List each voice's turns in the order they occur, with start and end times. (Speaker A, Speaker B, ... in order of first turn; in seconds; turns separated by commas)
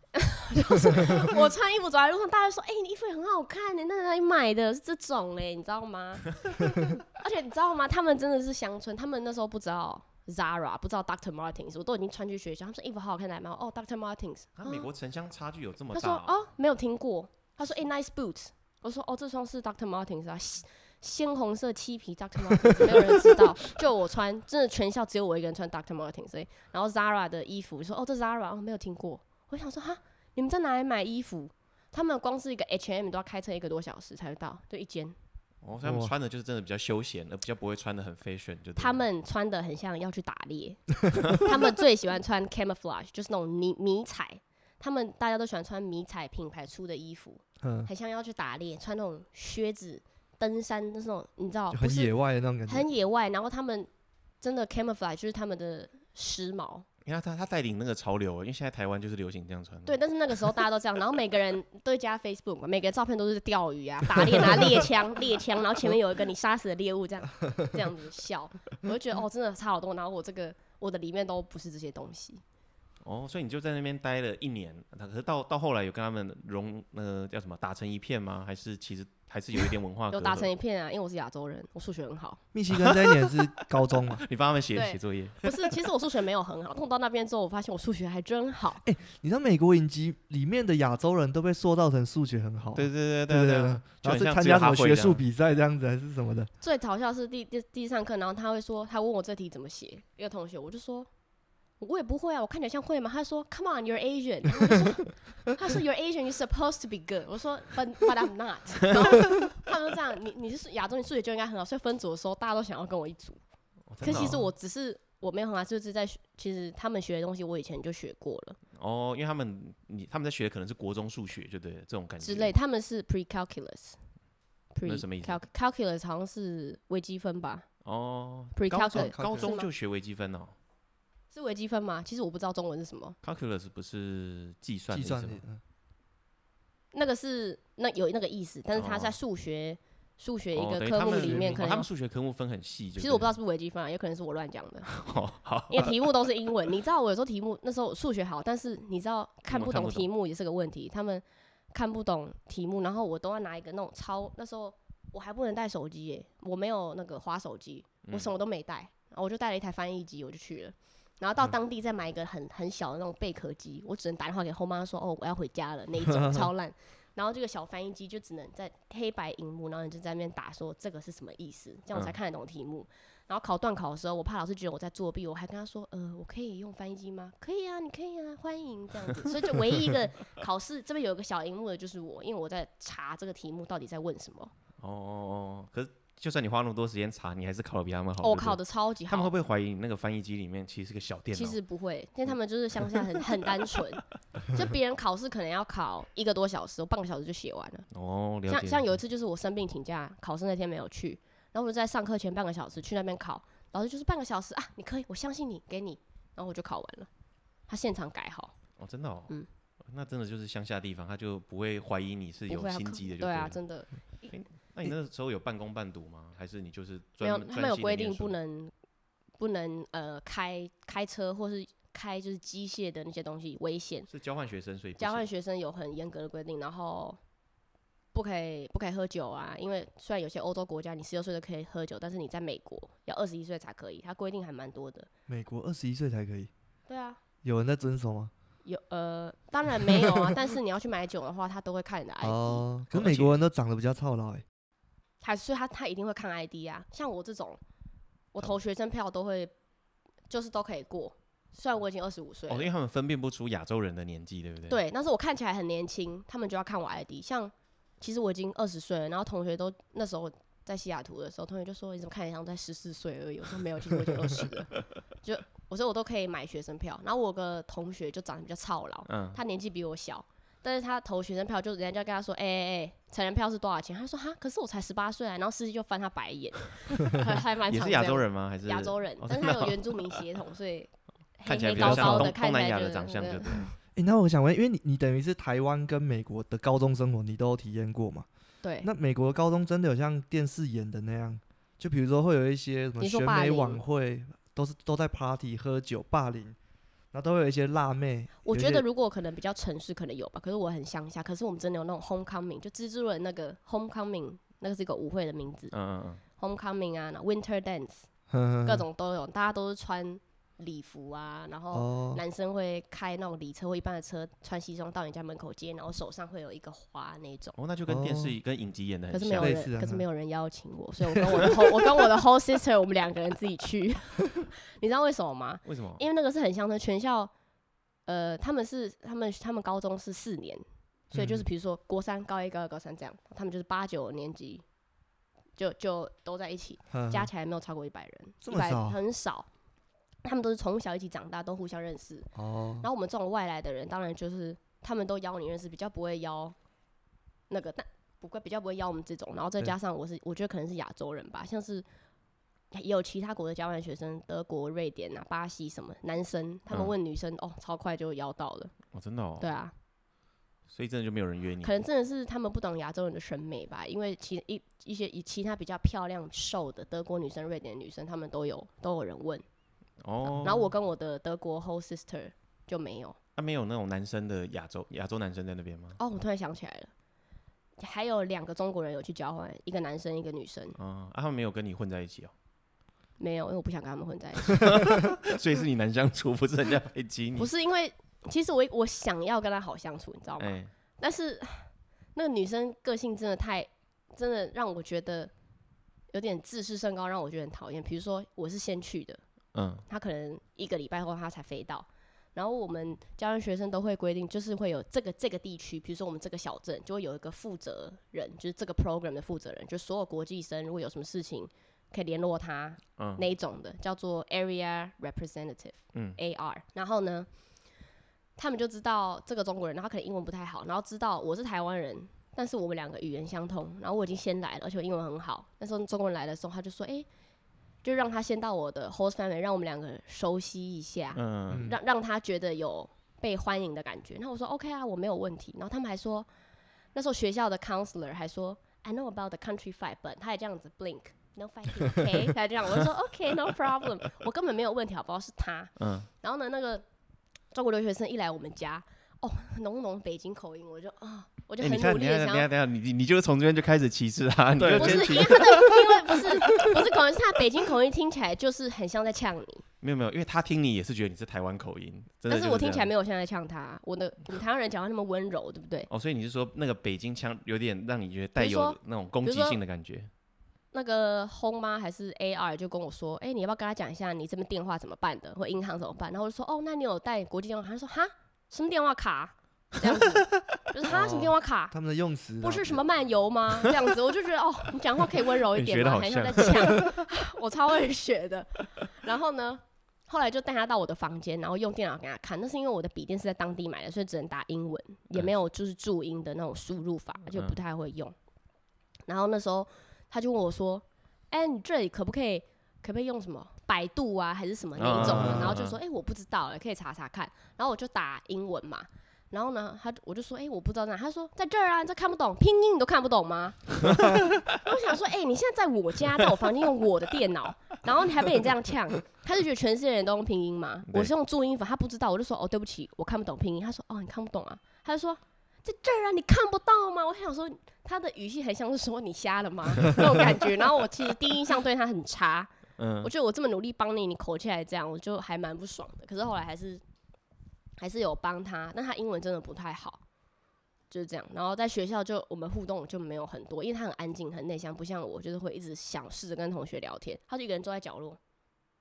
Speaker A: 0.1-14.9, Speaker B: 14.6-16.4, Speaker A: 15.9-35.1, Speaker B: 35.6-39.0, Speaker C: 35.8-36.1, Speaker A: 38.8-52.1, Speaker C: 47.6-47.9, Speaker C: 51.7-52.9, Speaker A: 52.7-53.9, Speaker A: 54.4-56.9, Speaker B: 57.0-60.0, Speaker A: 59.9-72.4, Speaker B: 73.0-80.5, Speaker A: 80.1-82.4, Speaker C: 82.5-84.2, Speaker B: 82.7-85.5, Speaker A: 84.7-88.8, Speaker C: 88.8-96.5, Speaker B: 92.8-95.2, Speaker A: 96.6-101.1, Speaker A: 101.8-113.4, Speaker B: 113.9-114.4, Speaker A: 114.0-118.6, Speaker C: 114.0-114.5, Speaker B: 118.7-122.5, Speaker A: 122.2-124.0, Speaker A: 124.7-127.7, Speaker B: 124.8-125.4, Speaker B: 127.8-130.5, Speaker A: 128.5-129.7, Speaker C: 128.9-129.5, Speaker A: 131.3-133.2, Speaker B: 133.2-135.4, Speaker C: 134.9-135.6, Speaker A: 136.9-141.9, Speaker B: 138.8-139.2, Speaker B: 140.6-143.3, Speaker C: 141.2-141.6, Speaker A: 143.0-145.0, Speaker B: 144.9-146.1, Speaker A: 145.7-184.5, Speaker B: 149.5-150.1, Speaker B: 158.1-158.3, Speaker C: 166.2-166.5, Speaker B: 184.8-191.6, Speaker A: 188.2-189.3, Speaker A: 191.3-197.9, Speaker B: 192.8-193.1, Speaker B: 197.9-198.9, Speaker A: 198.5-207.1, Speaker A: 207.7-208.5, Speaker B: 208.8-209.3, Speaker B: 209.9-213.6, Speaker A: 212.5-214.3, Speaker B: 214.3-218.4, Speaker A: 217.2-218.7, Speaker A: 219.4-224.1, Speaker B: 224.1-225.3, Speaker A: 225.0-227.2, Speaker A: 228.1-235.1, Speaker C: 235.3-236.5, Speaker A: 236.9-237.2, Speaker C: 237.4-238.3, Speaker A: 238.7-242.7, Speaker C: 242.2-244.4, Speaker B: 242.9-243.4, Speaker A: 245.2-247.6, Speaker A: 248.3-249.5, Speaker A: 250.3-252.7, Speaker B: 252.5-254.8, Speaker A: 254.7-283.7, Speaker B: 269.1-269.4, Speaker B: 277.7-280.2, Speaker B: 281.5-283.7, Speaker C: 281.8-282.3, Speaker C: 284.0-288.3, Speaker A: 288.6-288.9, Speaker C: 288.8-296.6, Speaker A: 293.0-293.8, Speaker C: 297.1-298.8, Speaker A: 298.4-305.7, Speaker B: 305.7-306.2, Speaker A: 306.4-308.1, Speaker C: 308.3-308.9, Speaker A: 308.6-317.6, Speaker C: 311.7-312.2, Speaker B: 317.6-319.6, Speaker C: 317.9-318.4, Speaker A: 319.1-327.3, Speaker C: 319.4-320.1, Speaker B: 325.6-326.0, Speaker A: 328.1-334.6, Speaker C: 331.1-331.5, Speaker A: 335.6-339.5, Speaker C: 336.9-337.3, Speaker C: 338.4-339.0, Speaker A: 340.2-342.3, Speaker C: 342.4-342.9, Speaker A: 342.8-346.6, Speaker A: 347.5-351.9, Speaker A: 352.7-358.8, Speaker B: 358.9-359.5, Speaker A: 359.4-359.7, Speaker B: 360.7-361.8, Speaker A: 361.6-369.4, Speaker B: 370.0-370.7, Speaker A: 370.3-373.2, Speaker B: 373.4-376.0, Speaker A: 376.0-376.9, Speaker A: 377.8-380.8, Speaker B: 380.8-382.3, Speaker A: 383.2-384.8, Speaker B: 384.6-387.5, Speaker A: 387.4-395.3, Speaker B: 390.4-390.7, Speaker A: 396.1-399.2, Speaker B: 399.5-399.9, Speaker A: 399.9-417.3, Speaker B: 413.0-413.2, Speaker B: 415.9-416.2, Speaker A: 418.4-427.1, Speaker A: 427.8-436.3, Speaker B: 431.1-431.7, Speaker C: 431.5-431.8, Speaker A: 436.9-446.9, Speaker B: 445.8-446.1, Speaker A: 447.5-452.5, Speaker B: 451.6-456.7, Speaker C: 454.6-455.5, Speaker A: 454.7-459.6, Speaker B: 459.8-462.9, Speaker A: 462.3-465.9, Speaker B: 465.9-470.1, Speaker A: 468.4-469.6, Speaker A: 470.7-481.7, Speaker C: 480.9-482.8, Speaker A: 482.4-498.1, Speaker B: 485.5-487.0, Speaker B: 497.3-497.6, Speaker A: 499.1-536.8, Speaker B: 504.8-505.8, Speaker C: 505.0-505.5, Speaker B: 532.8-533.1, Speaker A: 537.8-540.0, Speaker A: 540.9-548.2